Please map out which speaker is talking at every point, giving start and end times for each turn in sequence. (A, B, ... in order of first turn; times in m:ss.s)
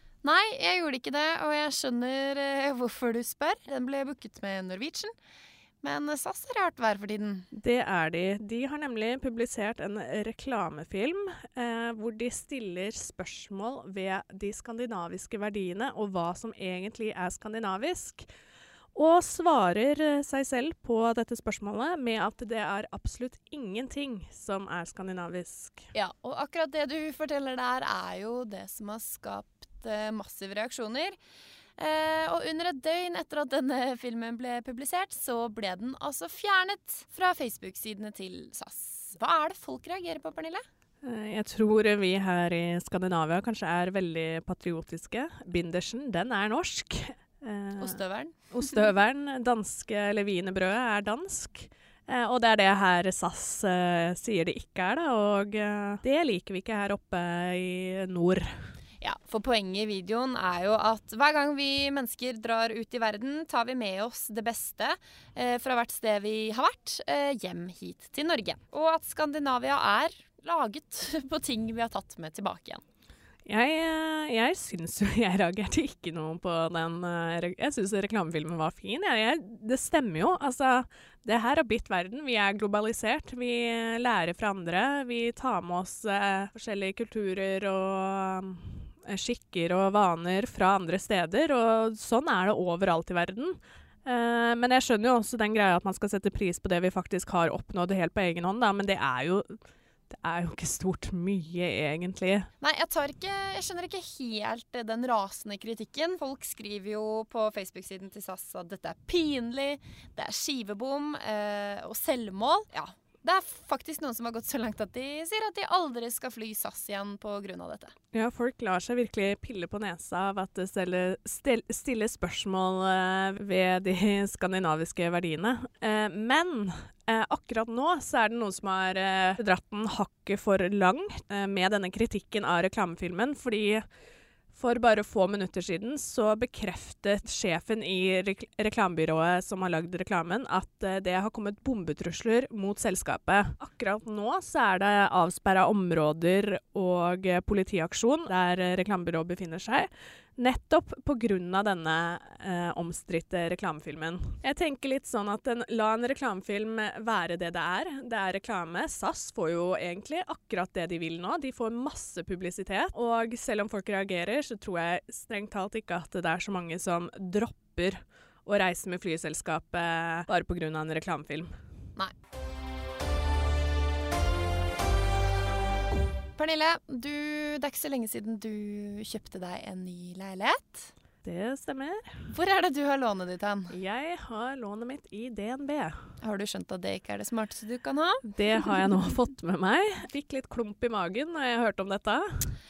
0:00.2-0:05.1 A
0:05.8-0:07.5 A
0:07.5-0:18.3 B
0:18.9-0:25.9 B
0:25.9-0:31.2 A
0:31.8-0:40.6 A
0:41.0-0:48.0 B
0:47.8-0:48.8 A
0:48.5-0:58.5 B
0:59.0-1:12.8 A
1:13.5-1:42.5 B
1:42.6-1:57.9 A
1:58.1-2:13.8 B
2:14.5-2:51.5 B
2:56.4-3:00.9 A
3:01.2-3:02.2 B
3:02.3-3:03.8 A
3:03.7-3:06.0 B
3:06.2-3:08.3 A
3:08.3-3:12.5 B